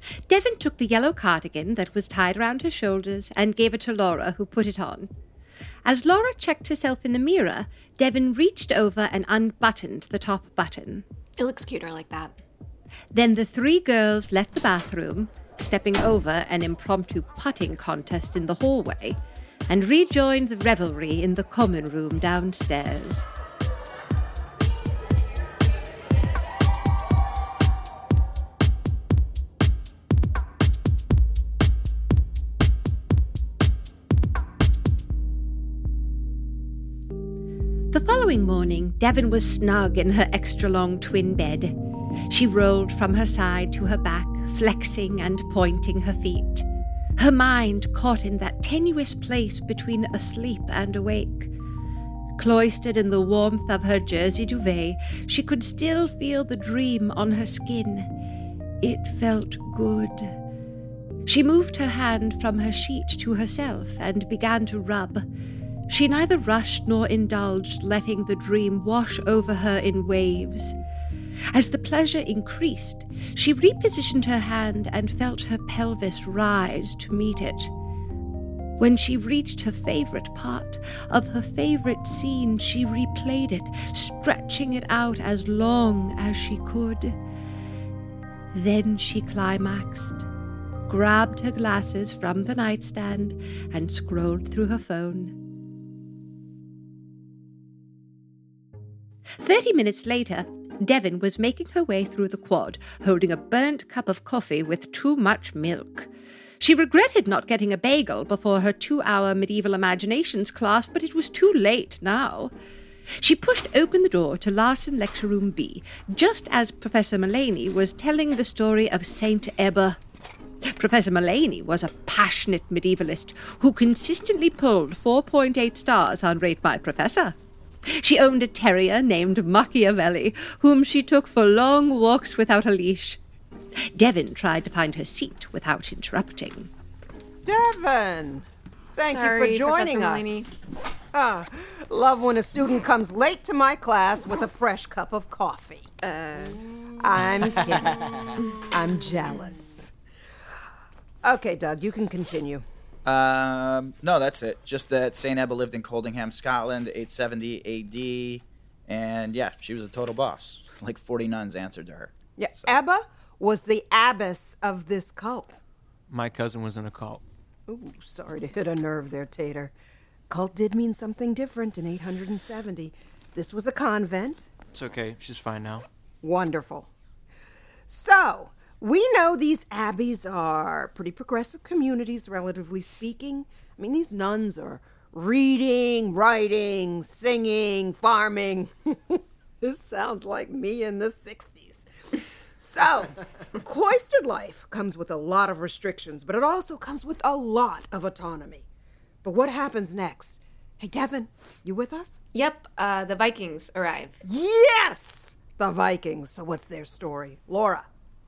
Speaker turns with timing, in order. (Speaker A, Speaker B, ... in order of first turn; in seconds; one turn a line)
Speaker A: 0.3-5.1
Speaker A: 5.8-11.0
Speaker B: 11.4-12.4
Speaker A: 13.1-23.3
Speaker A: 37.9-41.8
Speaker A: 42.3-46.6
Speaker A: 47.2-51.5
Speaker A: 52.4-58.1
Speaker A: 58.8-60.3
Speaker A: 61.3-65.2
Speaker A: 65.9-70.8
Speaker A: 71.5-77.7
Speaker A: 78.8-87.2
Speaker A: 88.5-90.3
Speaker A: 90.9-95.4
Speaker A: 99.4-106.1
Speaker A: 106.6-112.5
Speaker A: 113.2-120.0
Speaker A: 120.7-127.3
Speaker A: 127.9-133.2
Speaker A: 133.9-136.7
Speaker C: 137.4-140.5
Speaker B: 139.1-140.5
Speaker C: 141.1-145.9
Speaker B: 146.0-146.7
Speaker C: 147.0-149.9
Speaker B: 148.3-148.6
Speaker C: 151.2-152.6
Speaker D: 153.1-162.7
Speaker C: 162.4-165.6
Speaker E: 166.1-167.2
Speaker C: 167.7-169.7
Speaker C: 170.3-174.5
Speaker E: 174.7-175.9
Speaker C: 176.2-176.9
Speaker C: 177.9-191.9
Speaker C: 192.6-198.7
Speaker C: 199.2-202.2
Speaker B: 202.3-204.2
Speaker C: 204.2-207.9